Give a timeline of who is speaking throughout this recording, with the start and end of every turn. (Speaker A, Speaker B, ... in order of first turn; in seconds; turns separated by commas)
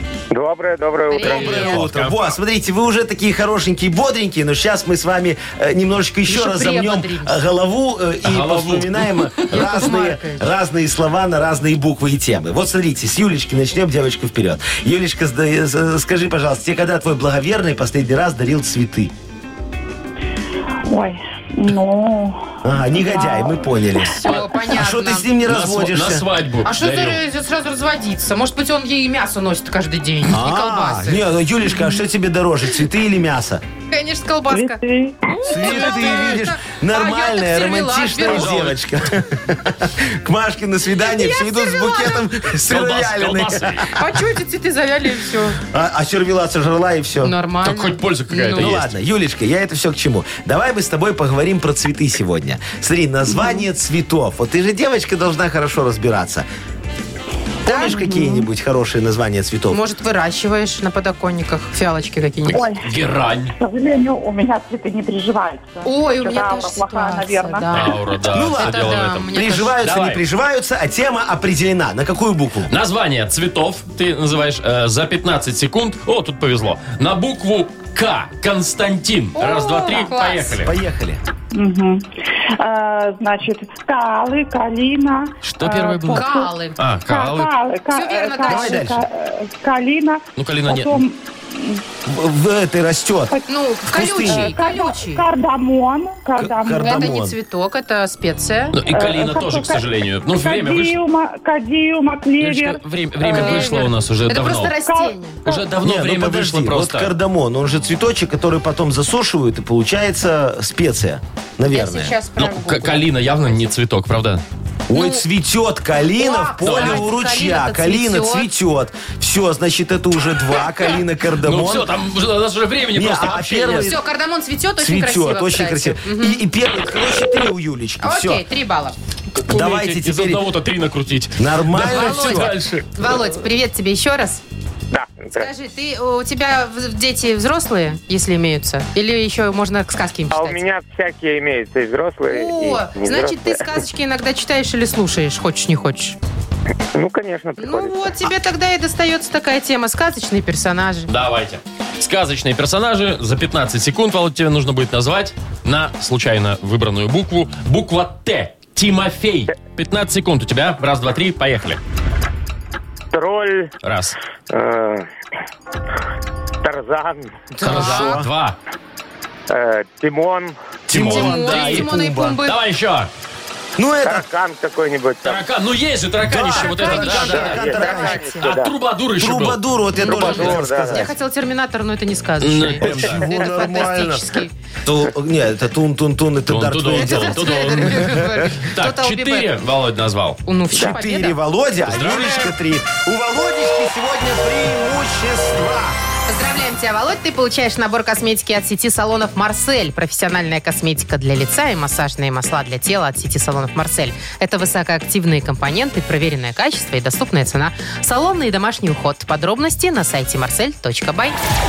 Speaker A: 0.3-1.6, Speaker B: 1.1-1.8, Speaker C: 1.2-19.1, Speaker D: 1.2-2.2, Speaker B: 6.2-7.3, Speaker D: 8.2-9.5, Speaker B: 9.5-10.4, Speaker E: 20.9-24.0, Speaker C: 22.6-26.3, Speaker B: 24.2-25.3, Speaker D: 25.4-27.2, Speaker B: 26.6-31.3, Speaker C: 30.3-33.6, Speaker B: 33.9-38.6, Speaker E: 34.5-35.6, Speaker C: 35.4-44.0, Speaker D: 38.2-38.8, Speaker B: 41.0-42.2, Speaker D: 42.6-43.9, Speaker B: 43.9-45.6, Speaker C: 45.7-47.3, Speaker B: 47.2-48.7, Speaker D: 47.6-48.9, Speaker C: 48.5-56.5, Speaker E: 53.3-53.6, Speaker C: 57.6-59.8, Speaker B: 57.7-57.9, Speaker E: 57.7-58.5, Speaker B: 59.7-62.6, Speaker D: 62.5-63.5, Speaker E: 62.5-62.9, Speaker E: 63.6-68.0, Speaker B: 65.8-69.8, Speaker D: 67.7-70.2, Speaker C: 68.3-72.7, Speaker D: 72.7-80.7, Speaker B: 79.4-80.5, Speaker C: 80.6-81.2, Speaker E: 81.5-86.5, Speaker D: 85.4-87.5, Speaker B: 86.1-86.8, Speaker E: 87.0-91.8, Speaker B: 87.9-88.8, Speaker C: 88.5-89.0, Speaker D: 90.4-91.0, Speaker C: 92.0-93.3, Speaker B: 93.5-95.2, Speaker C: 93.9-94.5, Speaker E: 94.2-97.2, Speaker C: 96.4-97.3, Speaker B: 96.8-98.8, Speaker D: 98.7-101.0, Speaker E: 98.8-105.7, Speaker D: 102.4-104.7, Speaker B: 103.3-105.4, Speaker D: 105.4-107.1, Speaker C: 105.8-112.2, Speaker B: 111.7-113.0, Speaker D: 112.4-114.4, Speaker C: 114.9-121.9, Speaker B: 114.9-115.2, Speaker B: 116.2-118.5, Speaker D: 116.6-117.0, Speaker D: 121.4-124.0, Speaker C: 122.9-124.0, Speaker B: 123.8-126.4, Speaker C: 124.8-128.4, Speaker B: 128.0-128.9, Speaker D: 129.3-132.9, Speaker C: 129.5-130.4, Speaker C: 131.4-132.6, Speaker B: 131.8-134.4, Speaker A: 134.9-135.5, Speaker B: 135.3-140.6, Speaker A: 140.3-143.7, Speaker B: 142.3-146.2, Speaker A: 146.9-148.3, Speaker B: 147.6-151.1, Speaker D: 151.1-161.8, Speaker A: 163.1-163.7, Speaker D: 163.8-164.2, Speaker A: 164.5-165.1, Speaker A: 166.6-167.5, Speaker C: 167.6-168.3, Speaker B: 167.6-168.2, Speaker D: 167.6-168.6, Speaker A: 169.5-170.6, Speaker D: 170.9-171.9, Speaker C: 170.9-172.4, Speaker B: 171.0-172.6, Speaker D: 172.4-173.1, Speaker C: 173.8-174.2, Speaker A: 174.0-175.4, Speaker D: 175.2-177.7, Speaker C: 176.2-178.6, Speaker B: 176.5-178.5, Speaker A: 177.2-178.7, Speaker D: 178.4-179.6, Speaker C: 179.2-181.1, Speaker B: 180.0-184.5, Speaker A: 180.0-181.1, Speaker D: 182.4-183.3, Speaker C: 182.8-184.3, Speaker C: 184.8-187.8, Speaker D: 186.5-190.4, Speaker B: 186.9-189.5, Speaker B: 190.4-191.4, Speaker C: 190.7-196.0, Speaker D: 191.8-192.5, Speaker B: 196.3-211.3